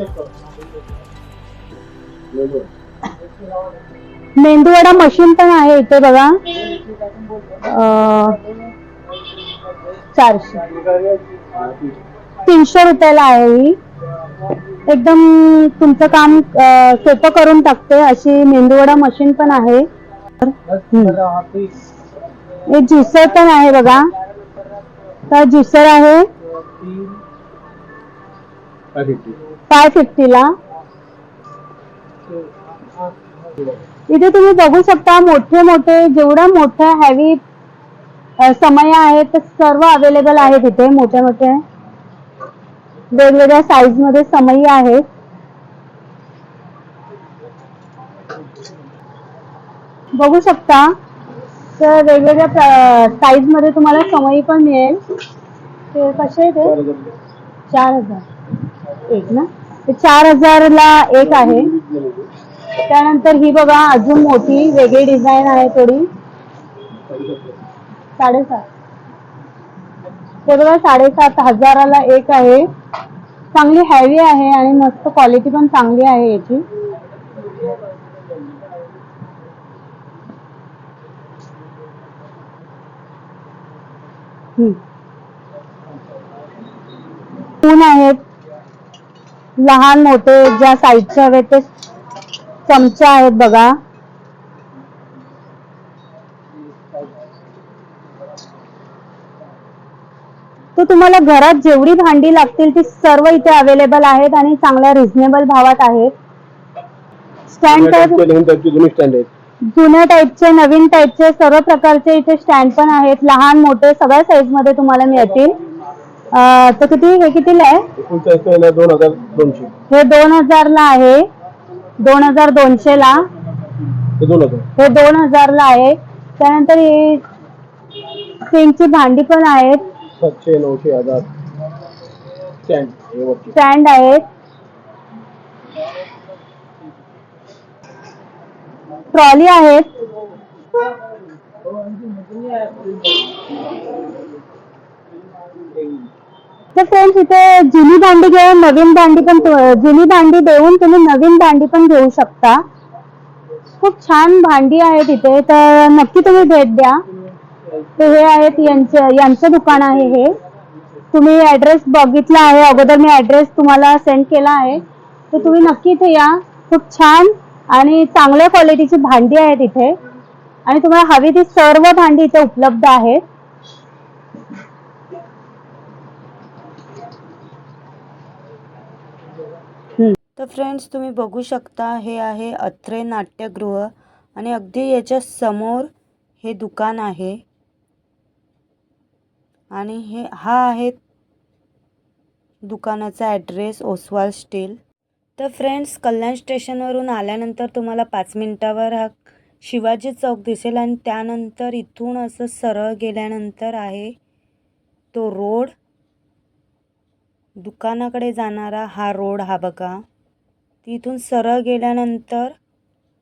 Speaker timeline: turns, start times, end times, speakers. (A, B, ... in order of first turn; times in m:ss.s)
0:02.3-0:02.7 A
0:04.4-0:06.4 B
0:07.6-0:08.4 B
0:10.2-0:10.6 B
0:12.4-0:13.8 B
0:14.9-0:19.9 B
0:20.4-0:21.2 B
0:22.7-0:24.1 B
0:25.3-0:26.3 B
0:29.0-0:29.3 A
0:29.7-0:30.5 B
0:34.1-0:37.4 B
0:38.4-0:41.6 B
0:43.1-0:45.0 B
0:50.2-0:50.9 B
0:51.8-0:55.0 B
0:55.9-0:56.8 B
0:56.6-0:57.1 A
0:57.7-0:58.2 B
0:59.1-1:01.7 B
1:01.2-1:02.3 A
1:02.9-1:06.1 B
1:07.1-1:07.5 A
1:08.2-1:08.7 B
1:10.5-1:12.6 B
1:13.5-1:16.6 B
1:27.6-1:28.2 B
1:29.6-1:31.7 B
1:32.7-1:33.8 B
1:40.8-1:46.1 B
1:47.5-1:48.2 B
1:47.7-1:49.3 A
1:49.7-1:55.6 B
1:56.3-1:57.8 B
1:58.0-1:59.7 A
1:59.9-2:01.2 B
2:02.0-2:03.2 B
2:04.2-2:04.6 A
2:04.8-2:07.2 B
2:08.5-2:09.8 B
2:10.2-2:11.3 A
2:12.6-2:13.5 A
2:13.5-2:14.2 B
2:19.1-2:19.9 B
2:26.8-2:32.6 B
2:33.8-2:37.0 B
2:38.0-2:40.4 B
2:41.1-2:50.0 B
2:50.7-2:53.2 B
3:00.4-3:07.4 C
3:09.7-3:11.0 C
3:12.7-3:14.8 C
3:15.4-3:24.2 C
3:25.1-3:25.7 C
3:27.6-3:30.0 C
3:30.8-3:32.6 C